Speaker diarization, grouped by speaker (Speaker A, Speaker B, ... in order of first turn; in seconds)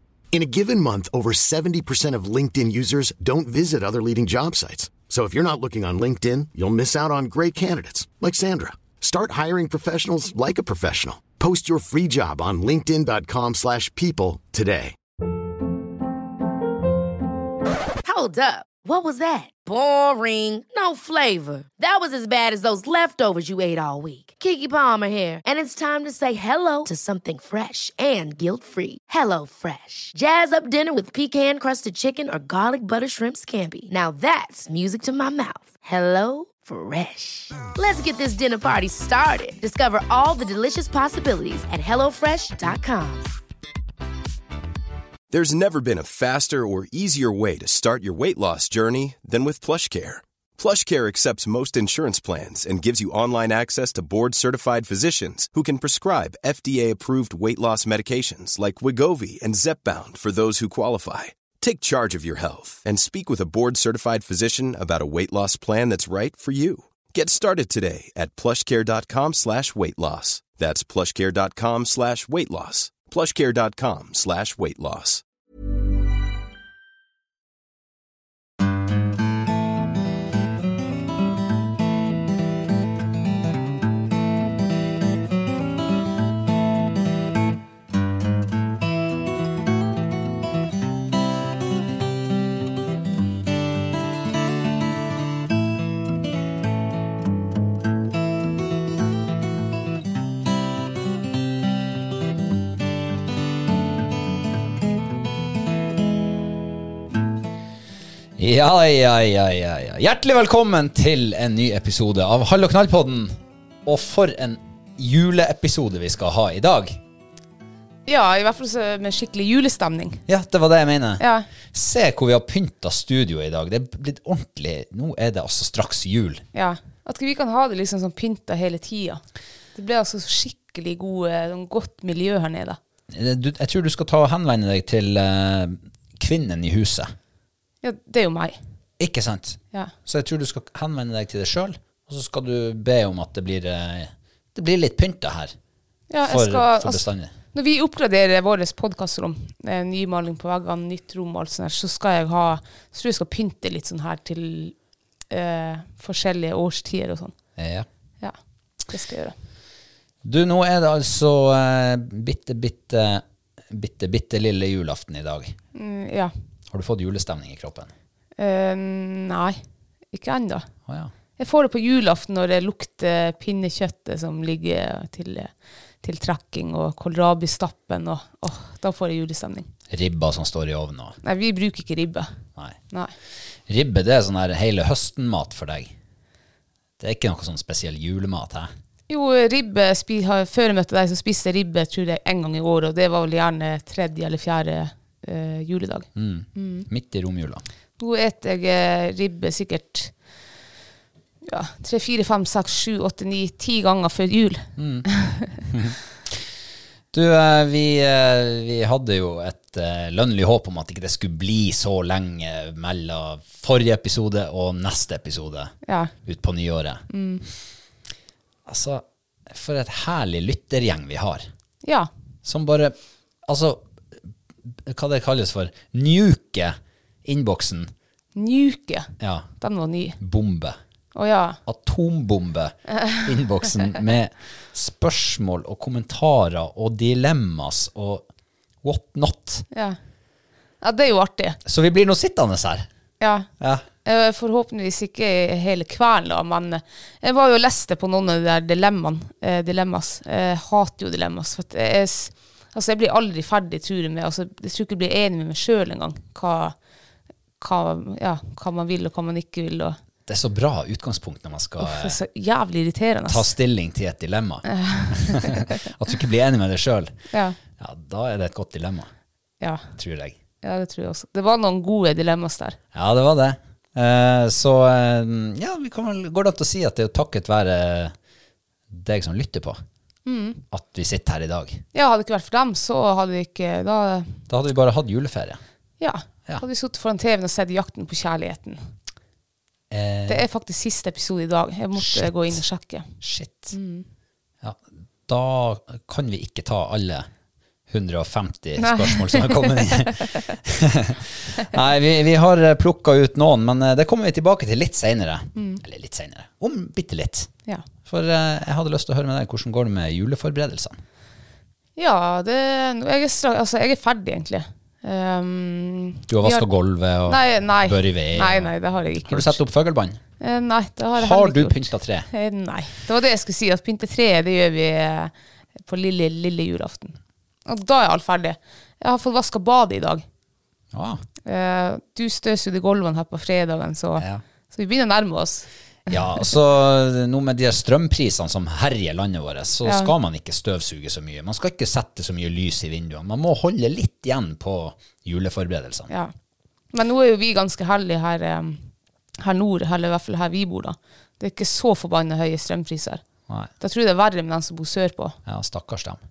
Speaker A: 0.3-15.0
Speaker B: 18.0-43.3
Speaker C: 45.3-75.2
Speaker D: 108.4-117.0, 120.3-126.5, 133.1-137.1, 139.0-145.5, 146.2-147.3, 157.6-157.9, 160.2-165.6, 166.7-167.9, 170.9-171.1, 179.9-181.2, 183.7-186.0, 187.0-188.7, 196.2-197.6, 204.8-205.1, 205.7-206.4, 207.1-215.7, 216.2-217.1, 218.7-221.5, 222.4-227.9, 229.2-229.5, 230.2-230.8, 231.7-238.3, 238.8-239.7, 241.7-242.9, 243.6-243.9, 260.3-262.2, 263.3-267.2, 267.8-269.1, 270.0-270.4, 272.9-278.1, 278.9-279.8, 280.7-281.8, 284.5-285.6, 289.9-290.5, 291.9-292.6, 293.2-293.7, 294.6-297.3, 297.9-307.5, 308.1-311.0, 316.3-318.7, 319.2-320.2, 321.1-322.3, 330.9-331.2, 334.2-334.4, 336.1-346.1, 355.5-356.2
Speaker E: 118.1-120.2, 121.2-121.5, 126.5-129.2, 129.8-132.8, 137.8-138.6, 146.1-154.7, 155.3-157.3, 158.9-159.3, 165.7-166.3, 168.4-170.7, 171.4-175.5, 176.0-179.7, 181.2-182.3, 189.1-196.9, 198.0-200.1, 201.5-205.7, 215.9-216.1, 217.1-217.4, 221.8-222.1, 228.4-230.2, 231.2-231.6, 239.7-240.0, 240.8-241.6, 243.2-243.5, 244.1-256.8, 257.6-260.0, 261.8-263.5, 264.7-265.8, 267.3-267.6, 269.6-269.9, 270.6-272.8, 280.3-280.6, 281.9-284.4, 286.0-288.8, 290.3-293.1, 293.7-294.1, 298.8-300.4, 305.6-305.8, 312.0-316.7, 317.3-319.6, 320.4-330.2, 331.5-336.2, 339.9-340.1, 346.9-348.9, 349.4-353.2, 353.8-355.4